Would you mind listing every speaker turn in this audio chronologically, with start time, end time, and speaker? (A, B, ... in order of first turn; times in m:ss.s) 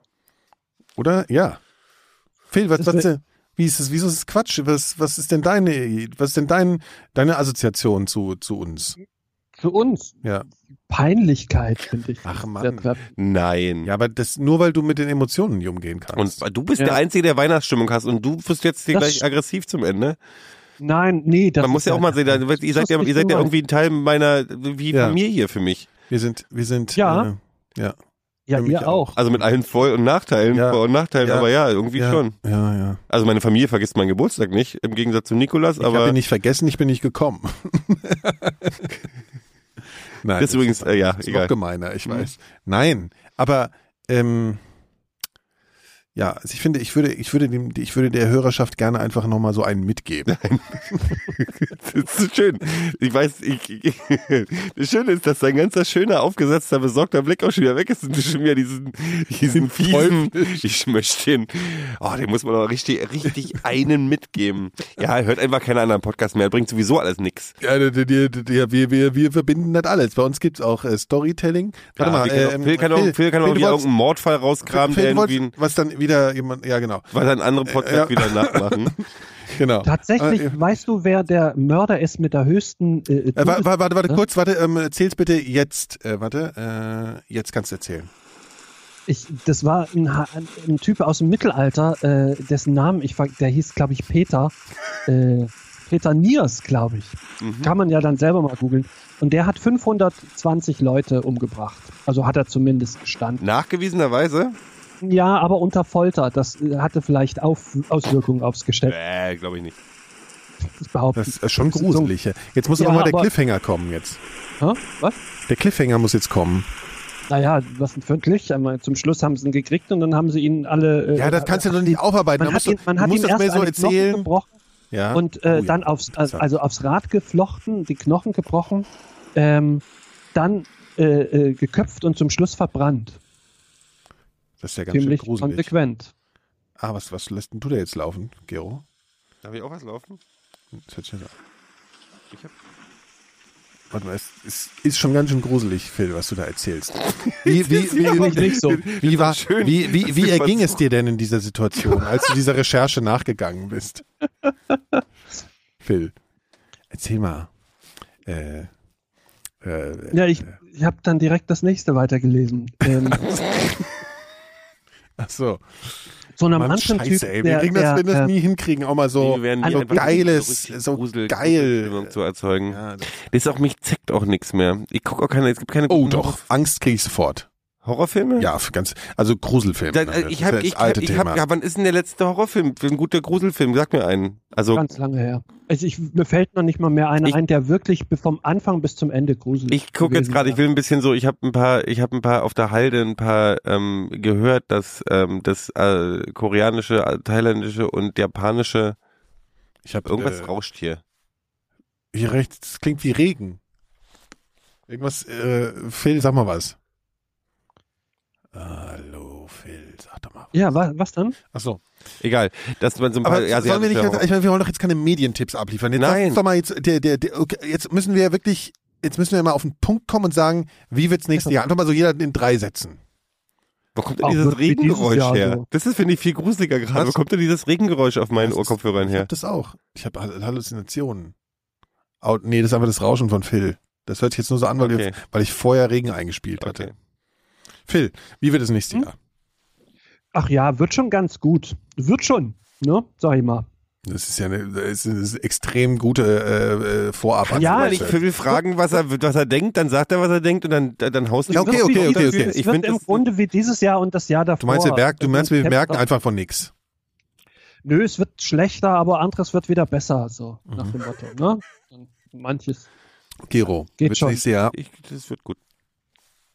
0:01.0-0:01.6 A
0:02.5-0:09.0 A
0:02.8-0:03.1 B
0:09.6-0:10.2 B
0:10.9-0:13.1 B
0:12.2-0:12.9 A
0:13.2-0:13.9 C
0:13.8-0:16.4 A
0:16.2-0:20.2 C
0:18.9-0:19.2 B
0:20.8-0:23.5 B
0:21.6-0:25.9 C
0:24.9-0:25.2 A
0:26.1-0:28.0 A
0:27.0-0:27.3 B
0:28.5-0:29.1 B
0:28.6-0:29.2 A
0:29.2-0:32.4 C
0:30.5-0:33.0 A
0:33.1-0:36.2 C
0:35.8-0:38.9 A
0:40.2-0:44.6 A
0:40.4-0:41.5 C
0:46.2-0:50.4 A
0:50.3-1:07.6 C
0:59.5-1:00.7 A
1:07.6-1:13.9 A
1:12.0-1:15.5 C
1:14.7-1:17.1 A
1:17.1-1:19.0 C
1:17.6-1:19.0 A
1:19.5-1:20.6 A
1:19.8-1:24.2 B
1:23.4-1:28.1 A
1:29.1-1:34.6 B
1:35.1-1:43.4 B
1:37.4-1:37.7 C
1:43.4-1:44.6 C
1:45.0-1:49.0 B
1:48.9-1:49.8 C
1:50.6-1:52.1 B
1:51.2-1:54.2 A
1:52.8-1:53.3 B
1:54.6-1:55.2 B
1:55.5-1:56.7 A
1:57.3-2:04.6 B
2:01.2-2:04.3 A
2:04.9-2:06.5 A
2:05.1-2:09.8 B
2:10.4-2:13.2 B
2:14.6-2:15.7 A
2:14.9-2:16.1 B
2:16.8-2:18.8 A
2:19.4-2:20.2 C
2:20.7-2:21.3 A
2:23.9-2:34.0 A
2:27.2-2:30.8 C
2:27.8-2:28.8 B
2:35.8-2:36.2 A
2:36.9-2:37.5 A
2:38.3-2:38.7 A
2:39.6-2:40.5 A
2:40.1-2:43.3 B
2:45.2-2:45.6 A
2:46.4-2:48.3 B
2:46.5-2:52.1 A
2:49.2-2:56.4 C
2:49.6-2:50.2 B
2:52.7-2:53.1 A
2:55.9-2:57.5 A
2:57.8-2:58.5 C
2:58.4-3:01.4 A
2:59.9-3:04.8 C
3:04.7-3:10.6 B
3:09.7-3:19.0 C
3:19.8-3:20.5 A
3:20.1-3:21.0 C
3:22.1-3:23.6 A
3:24.9-3:26.8 A
3:28.5-3:30.5 A
3:30.5-3:31.4 B
3:31.5-3:31.8 A
3:32.2-3:34.2 C
3:33.2-3:43.0 A
3:36.0-3:36.4 C
3:44.0-3:49.3 C
3:44.2-3:45.6 B
3:48.4-3:51.3 A
3:52.2-3:56.9 A
3:54.8-3:55.1 C
3:56.6-3:56.9 C
3:57.9-3:59.2 A
4:00.3-4:03.7 B
4:04.0-4:08.2 A
4:07.5-4:13.2 C
4:07.6-4:08.6 B
4:11.5-4:16.0 B
4:11.5-4:12.6 A
4:14.6-4:16.7 A
4:17.8-4:22.9 B
4:20.7-4:21.0 A
4:23.5-4:24.8 A
4:24.0-4:24.4 B
4:24.7-4:25.6 C